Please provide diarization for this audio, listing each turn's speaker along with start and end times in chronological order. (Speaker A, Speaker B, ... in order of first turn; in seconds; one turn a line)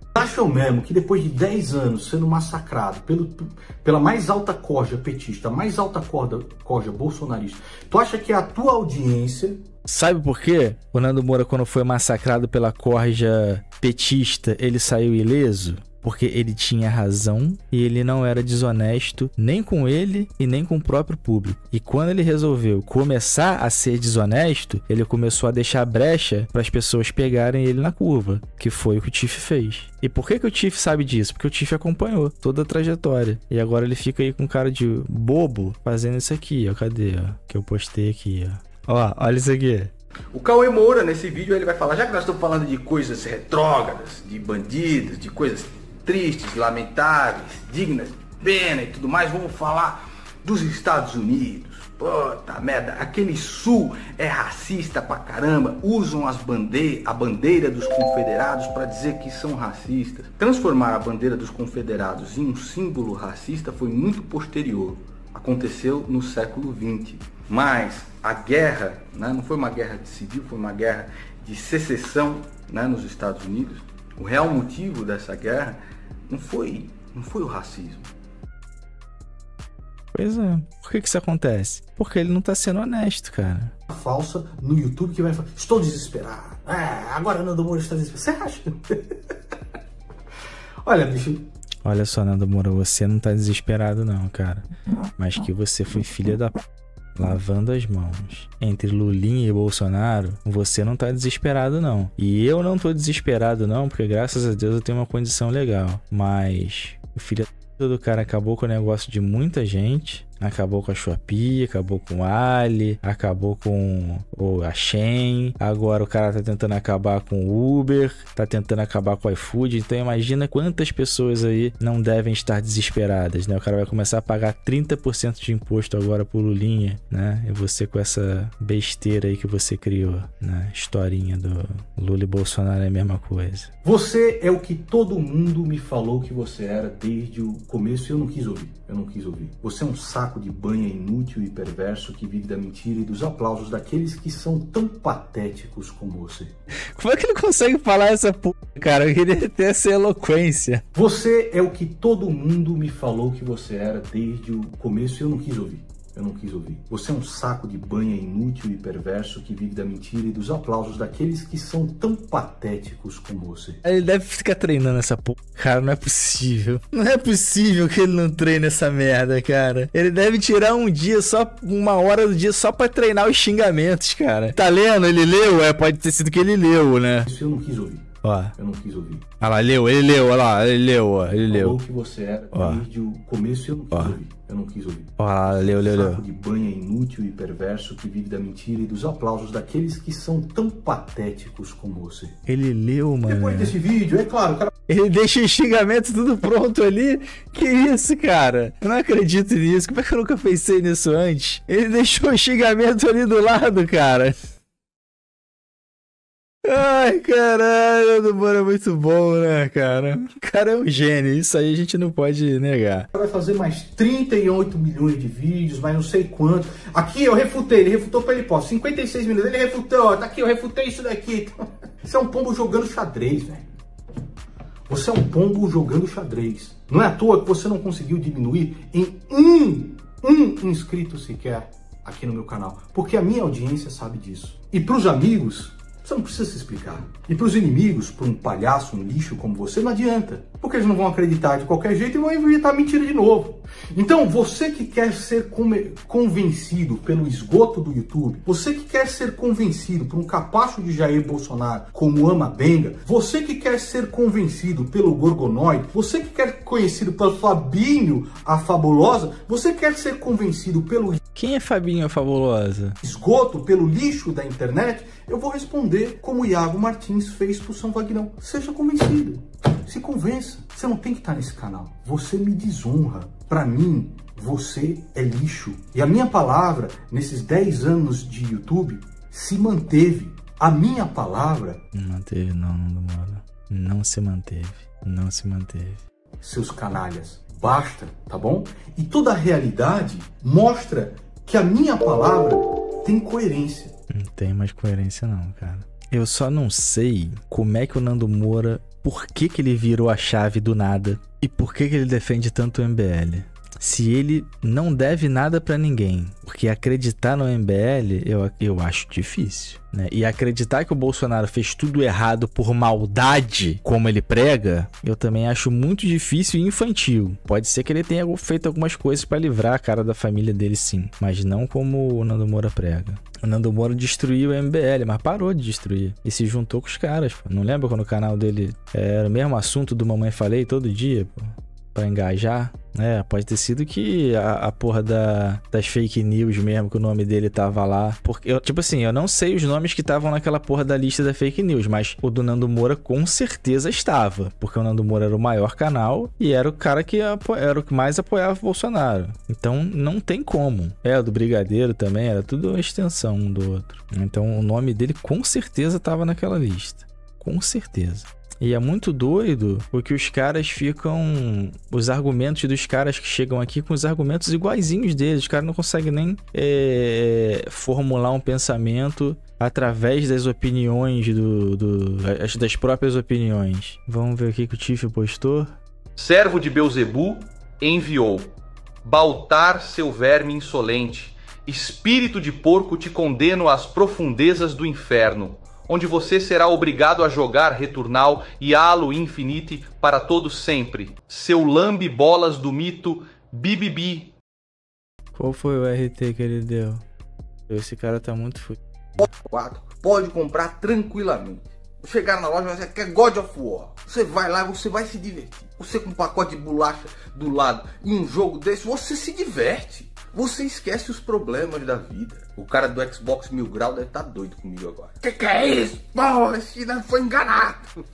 Speaker A: 0.1-9.6
Speaker B: 9.8-39.9
Speaker A: 40.3-78.1
Speaker B: 80.1-83.7
Speaker A: 83.9-89.1
Speaker A: 90.8-91.4
Speaker B: 91.8-94.7
Speaker B: 95.2-96.6
Speaker B: 97.2-133.7
Speaker A: 133.8-146.5
Speaker B: 146.9-150.8
Speaker A: 150.9-163.8
Speaker B: 163.8-177.3
Speaker A: 177.3-179.3
Speaker B: 178.2-178.5
Speaker B: 179.4-181.8
Speaker A: 181.5-192.4
Speaker B: 182.5-182.8
Speaker B: 183.9-184.2
Speaker B: 185.2-186.2
Speaker B: 192.4-193.8
Speaker A: 193.3-194.7
Speaker B: 194.9-204.3
Speaker B: 206.6-213.1
Speaker A: 213.1-221.5
Speaker A: 222.0-223.7
Speaker A: 224.9-261.2
Speaker B: 261.3-263.0
Speaker A: 263.0-281.8
Speaker B: 281.9-286.0
Speaker A: 286.4-293.9
Speaker B: 294.1-375.8
Speaker C: 376.1-378.5
Speaker C: 379.0-394.3
Speaker B: 395.3-397.0
Speaker B: 397.7-398.8
Speaker A: 399.2-417.9